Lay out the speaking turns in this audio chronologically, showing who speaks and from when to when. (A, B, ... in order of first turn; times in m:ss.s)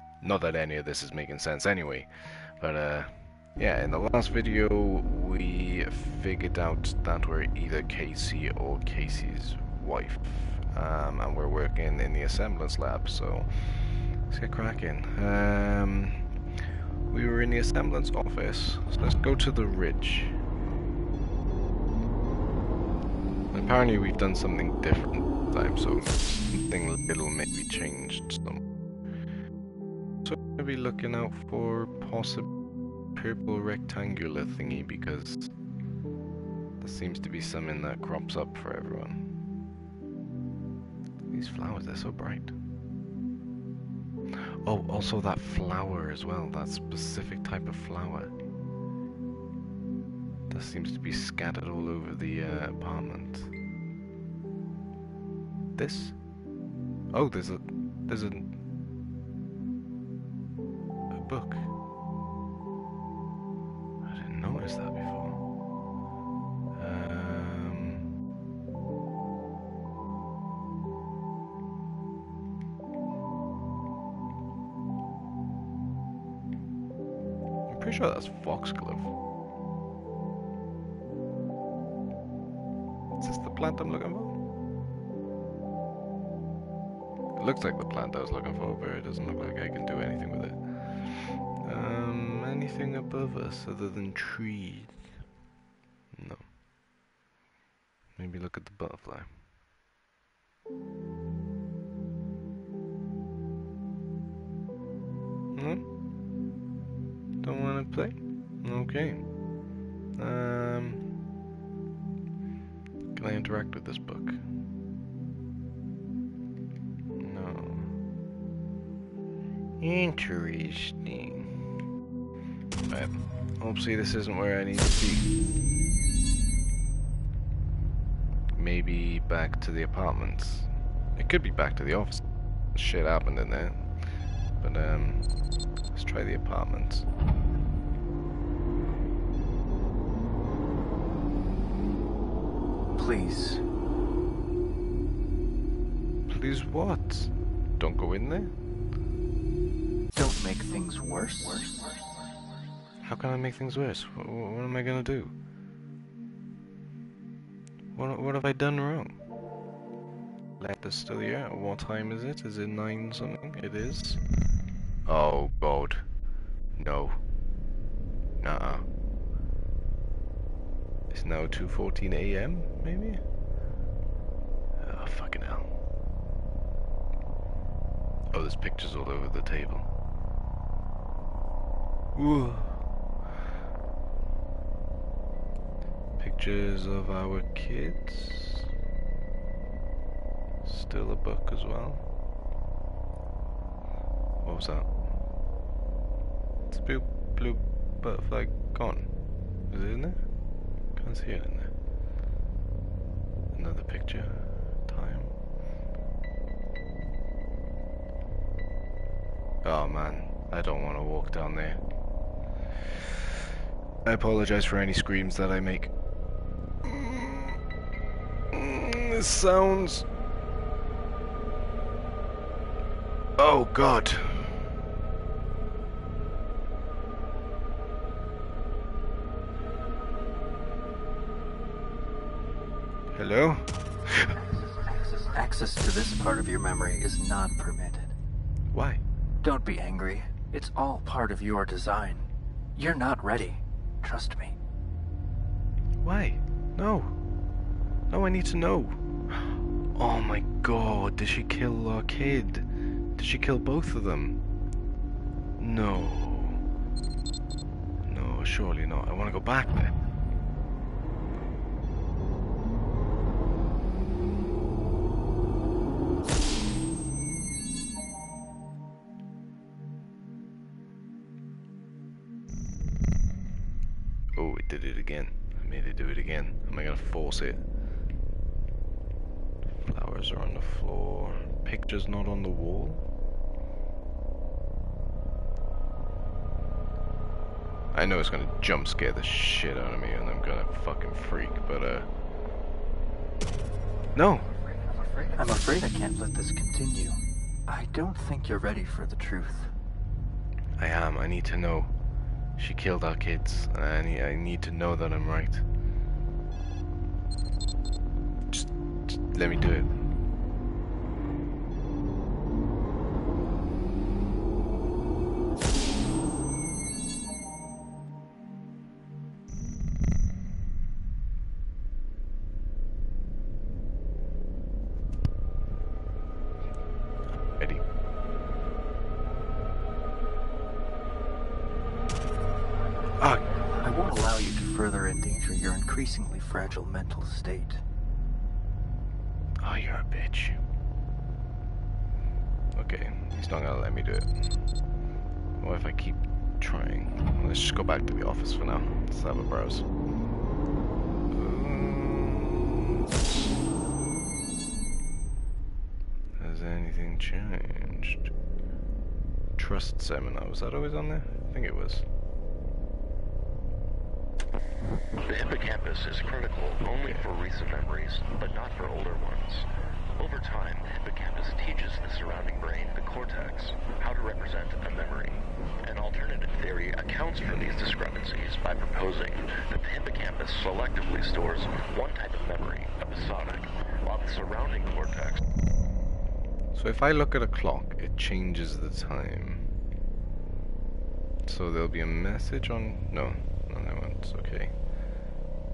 0:00.2-0:16.3 A
0:17.1-0:20.4 A
0:23.5-0:28.6 A
0:30.2-0:32.5 A
0:33.1-0:35.5 A
0:36.8-0:39.3 A
0:41.3-0:42.5 A
0:44.4-0:48.3 A
0:50.5-0:53.5 A
0:55.8-0:56.2 A
0:57.1-0:58.5 A
1:01.1-1:01.7 A
1:04.0-1:05.4 A
1:06.8-1:08.1 A
1:17.7-1:19.1 A
1:23.2-1:24.4 A
1:27.4-1:35.1 A
1:36.1-1:36.5 A
1:38.2-1:39.3 A
1:45.6-1:45.8 A
1:47.4-1:49.2 A
1:50.2-1:51.1 A
1:53.2-1:54.4 A
1:57.2-1:57.9 A
1:59.8-2:01.6 A
2:02.9-2:05.3 A
2:08.6-2:13.9 A
2:14.6-2:15.4 A
2:15.9-2:17.1 A
2:22.9-2:23.6 B
2:26.3-2:28.5 A
2:30.1-2:32.0 B
2:33.0-2:35.3 A
2:38.0-2:39.2 A
2:40.6-2:44.2 A
2:45.1-2:46.0 A
2:46.8-2:47.2 A
2:48.4-2:48.9 A
2:51.1-2:53.2 A
2:54.8-2:55.7 A
2:58.3-2:59.9 A
3:02.2-3:02.9 A
3:06.2-3:08.7 A
3:10.6-3:12.0 A
3:14.4-3:14.9 A
3:16.7-3:19.1 A
3:19.7-3:20.2 A
3:21.0-3:21.7 A
3:23.5-3:25.3 A
3:29.6-3:31.8 A
3:34.0-3:35.9 A
3:36.8-3:37.6 A
3:38.5-3:40.1 A
3:43.4-3:44.7 A
3:53.1-3:54.4 A
3:54.4-3:58.2 B
3:58.7-3:59.0 A
3:59.4-4:04.6 B
4:06.0-4:07.2 A
4:08.1-4:14.4 A
4:15.6-4:16.6 A
4:18.0-4:20.0 A
4:34.4-4:37.6 A
4:39.8-4:43.0 A
4:47.9-4:52.1 A
4:54.2-4:54.5 A
4:54.9-4:59.7 B
5:00.8-5:01.9 A
5:02.6-5:05.7 A
5:08.5-5:10.0 A
5:27.6-5:27.8 A
5:33.2-5:33.4 A
5:33.6-5:37.8 B
5:39.6-5:40.6 A
5:42.8-5:44.5 A
5:45.6-5:49.9 A
5:51.3-5:53.5 A
5:56.4-5:58.3 A
5:59.6-6:02.0 A
6:05.2-6:25.4 C
6:26.7-6:29.7 A
6:31.5-6:34.7 A